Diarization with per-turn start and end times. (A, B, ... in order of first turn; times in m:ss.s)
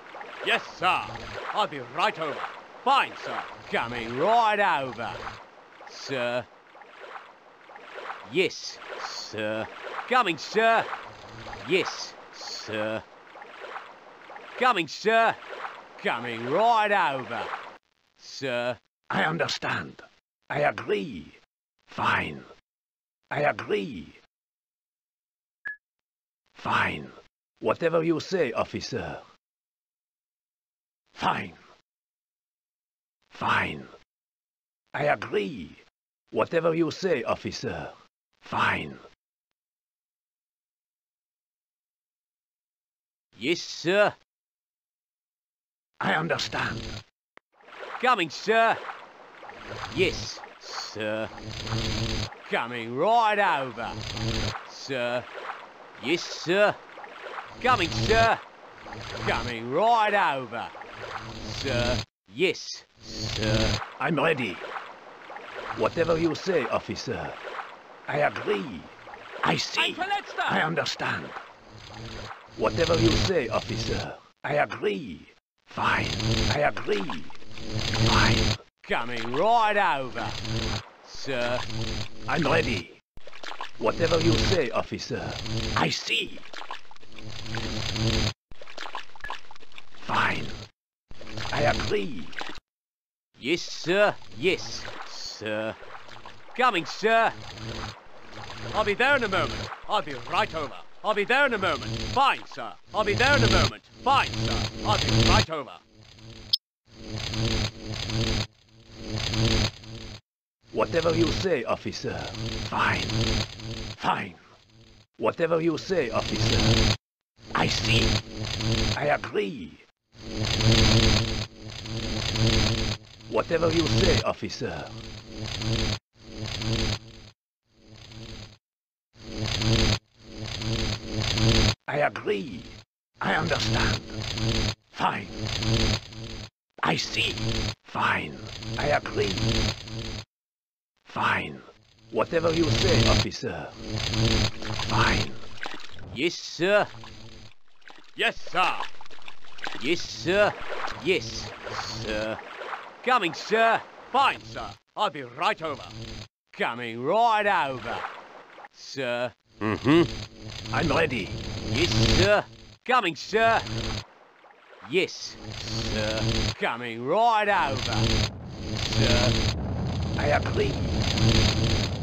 0:00.4-0:05.2 A
0:05.9-0:06.5 A
0:08.2-0:10.9 A
0:11.6-0:13.0 A
0:14.6-0:15.4 A
0:16.0-0:17.5 A
0:18.2-0:18.8 A
0:19.1-0:22.5 B
0:23.3-0:24.2 B
0:26.5-0:29.3 B
0:31.1-0:31.6 B
0:33.3-0:34.0 B
0:34.9-0:39.1 B
0:43.4-0:44.2 A
0:46.0-0:47.0 B
0:48.0-0:48.8 A
0:49.9-0:51.3 A
0:52.4-0:54.0 A
0:54.6-0:55.3 A
0:56.0-0:56.8 A
0:57.6-0:58.4 A
0:59.2-1:00.7 A
1:01.4-1:03.8 A
1:04.0-1:04.7 B
1:05.8-1:07.4 B
1:08.1-1:11.4 B
1:12.6-1:17.4 B
1:18.1-1:18.5 B
1:18.8-1:20.4 A
1:21.0-1:21.6 A
1:22.3-1:23.0 B
1:23.8-1:26.5 B
1:30.0-1:30.6 B
1:31.5-1:32.4 B
1:33.4-1:35.8 A
1:36.5-1:37.4 A
1:38.7-1:45.8 A
1:50.7-1:53.2 B
1:54.0-1:54.4 B
1:55.2-1:56.8 B
1:57.5-1:58.2 B
1:59.0-1:59.8 B
2:03.3-2:05.0 B
2:11.9-2:14.2 B
2:14.9-2:15.4 B
2:16.8-2:19.6 B
2:21.1-2:23.8 B
2:24.8-2:25.4 B
2:26.1-2:26.9 A
2:28.2-2:28.9 A
2:29.8-2:32.4 A
2:33.0-2:36.0 A
2:36.5-2:38.1 A
2:38.7-2:40.1 A
2:40.7-2:41.4 B
2:41.7-2:43.7 A
2:44.8-2:48.1 A
2:48.7-2:49.4 A
2:50.2-2:51.0 B